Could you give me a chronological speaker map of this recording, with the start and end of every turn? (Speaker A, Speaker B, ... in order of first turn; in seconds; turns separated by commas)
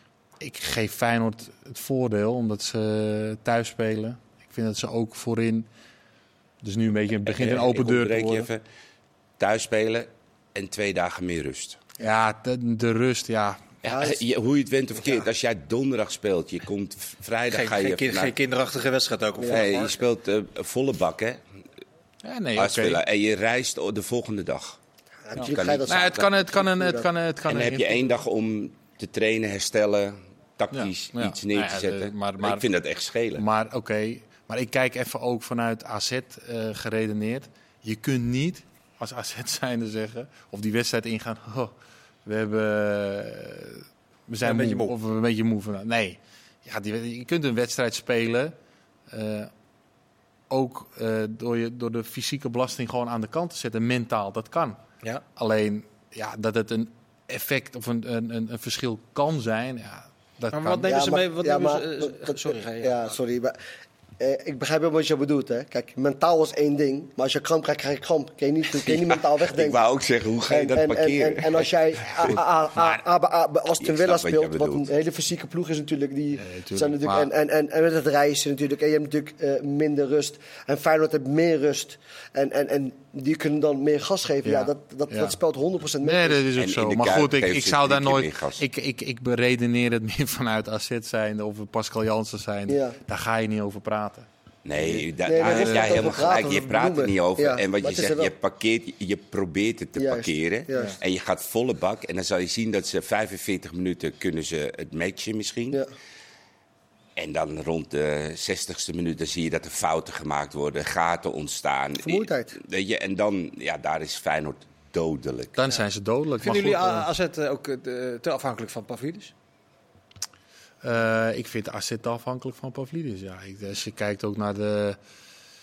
Speaker A: 0.4-5.7, Speaker A: 6.6-8.5, Speaker B: 7.3-8.6, Speaker B: 9.4-11.8, Speaker A: 12.0-13.8, Speaker B: 13.8-18.3, Speaker C: 13.8-14.2, Speaker D: 17.5-20.0, Speaker C: 19.4-19.6, Speaker B: 19.5-21.4, Speaker A: 22.2-23.0, Speaker B: 22.6-24.8, Speaker C: 25.3-27.1, Speaker A: 25.4-28.1, Speaker B: 25.4-26.2, Speaker B: 27.5-33.4, Speaker A: 30.7-32.6, Speaker A: 33.4-41.7, Speaker A: 42.3-48.5, Speaker D: 44.4-44.9, Speaker A: 49.1-49.5, Speaker A: 50.5-54.8, Speaker A: 55.4-60.9, Speaker D: 60.5-63.1, Speaker C: 60.9-63.6, Speaker C: 64.2-69.8, Speaker B: 68.9-72.4, Speaker C: 70.5-86.4, Speaker B: 73.8-74.9, Speaker A: 76.4-77.3, Speaker A: 84.4-85.3, Speaker A: 86.0-94.3, Speaker B: 86.5-88.6, Speaker C: 92.7-93.0, Speaker B: 94.6-105.8, Speaker C: 94.8-98.3, Speaker A: 95.4-96.0, Speaker C: 100.0-101.0, Speaker B: 107.2-115.6, Speaker C: 112.0-112.6, Speaker A: 115.6-117.1, Speaker D: 116.4-119.3, Speaker A: 120.8-125.0